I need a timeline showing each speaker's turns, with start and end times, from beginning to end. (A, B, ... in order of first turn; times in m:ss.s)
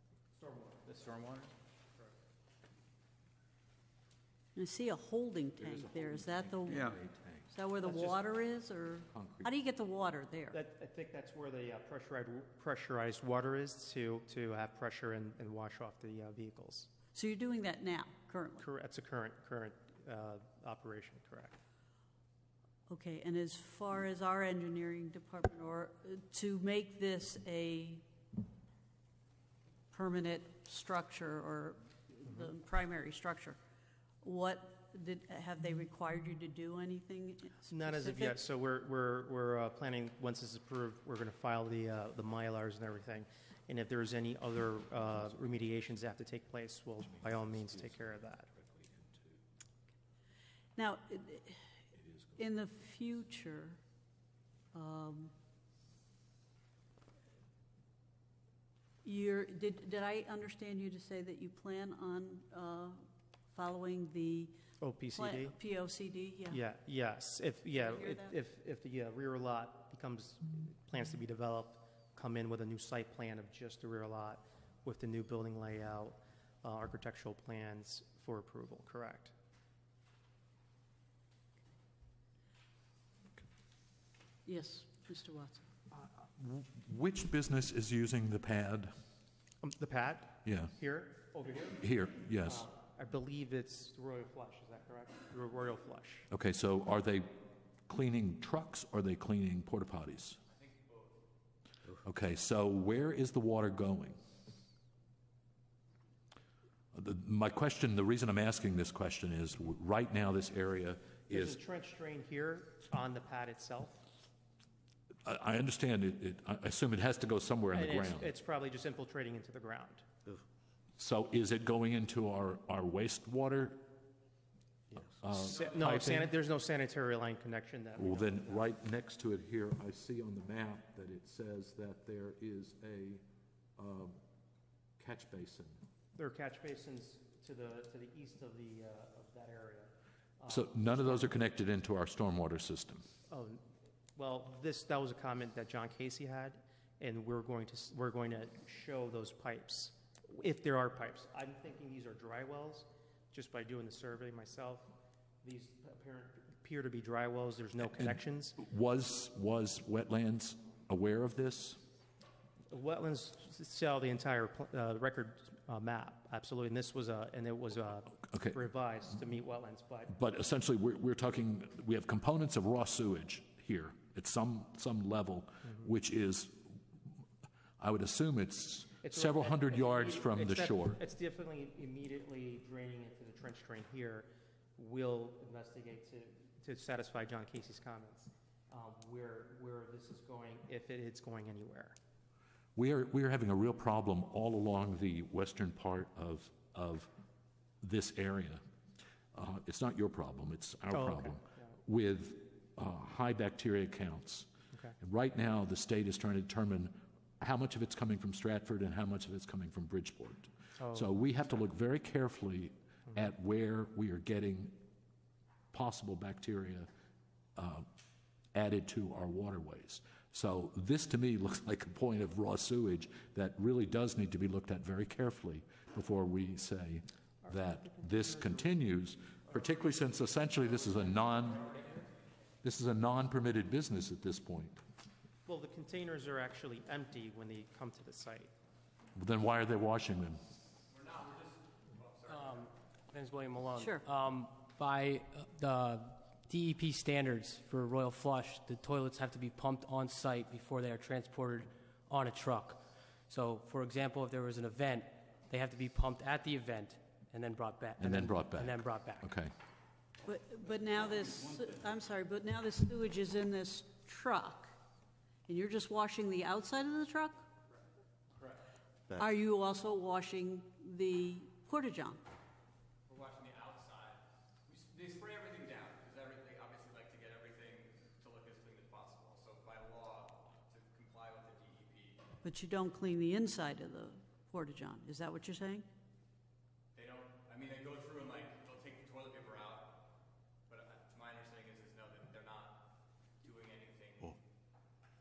0:00.3-0:00.9 A
0:00.9-0:01.5 B
0:04.5-0:06.9 C
0:05.6-0:07.5 D
0:07.5-0:10.6 C
0:07.8-0:08.2 A
0:09.1-0:09.5 D
0:10.5-0:16.9 A
0:17.1-0:18.6 C
0:18.6-0:21.6 A
0:22.9-0:28.0 C
0:29.9-0:33.6 C
0:34.2-0:38.4 C
0:37.7-0:48.5 A
0:47.6-0:49.4 D
0:50.8-0:51.6 C
0:52.4-0:53.8 C
0:54.7-0:55.3 C
0:59.0-1:04.6 C
1:04.8-1:05.6 A
1:05.1-1:06.6 C
1:06.5-1:19.3 A
1:07.7-1:08.3 C
1:24.4-1:25.6 C
1:26.2-1:28.9 D
1:29.6-1:36.3 A
1:30.4-1:30.7 D
1:31.8-1:32.7 D
1:36.3-1:40.4 D
1:40.5-1:41.2 B
1:42.0-1:44.2 D
1:46.9-1:51.6 D
1:51.3-1:54.1 A
1:55.2-1:58.3 D
1:57.7-2:00.1 A
2:01.0-2:03.8 D
2:05.1-2:06.3 D
2:05.5-2:08.7 A
2:08.0-2:13.2 D
2:13.8-2:14.2 D
2:15.0-2:15.8 D
2:16.1-2:21.5 A
2:20.5-2:23.0 D
2:23.3-2:38.6 A
2:38.0-2:41.8 D
2:42.7-2:50.1 A
2:48.3-2:48.6 D
2:50.1-2:56.8 D
2:57.8-3:01.0 D
2:59.0-3:12.0 A
3:12.8-3:17.1 D
3:17.8-3:18.6 D
3:19.3-3:24.5 D
3:20.9-3:21.8 A
3:25.0-3:34.8 D
3:30.8-3:31.1 A
3:35.7-3:36.9 D
3:37.6-3:37.8 D
3:38.5-3:51.7 D
3:47.4-3:48.7 A
3:49.5-3:50.0 A
3:51.3-3:51.9 B
3:52.6-3:54.8 D
3:55.4-3:58.5 A
3:59.2-4:00.4 D
4:00.9-4:02.7 B
4:02.3-4:19.3 E
4:03.8-4:04.0 C
4:18.0-4:19.5 D
4:20.2-4:24.7 C
4:25.5-4:27.4 C
4:28.4-4:28.6 B
4:29.1-4:32.2 C
4:33.1-4:42.2 B
4:42.4-4:45.8 C
4:46.9-4:50.1 B
4:50.7-4:52.9 B
4:53.4-4:54.4 B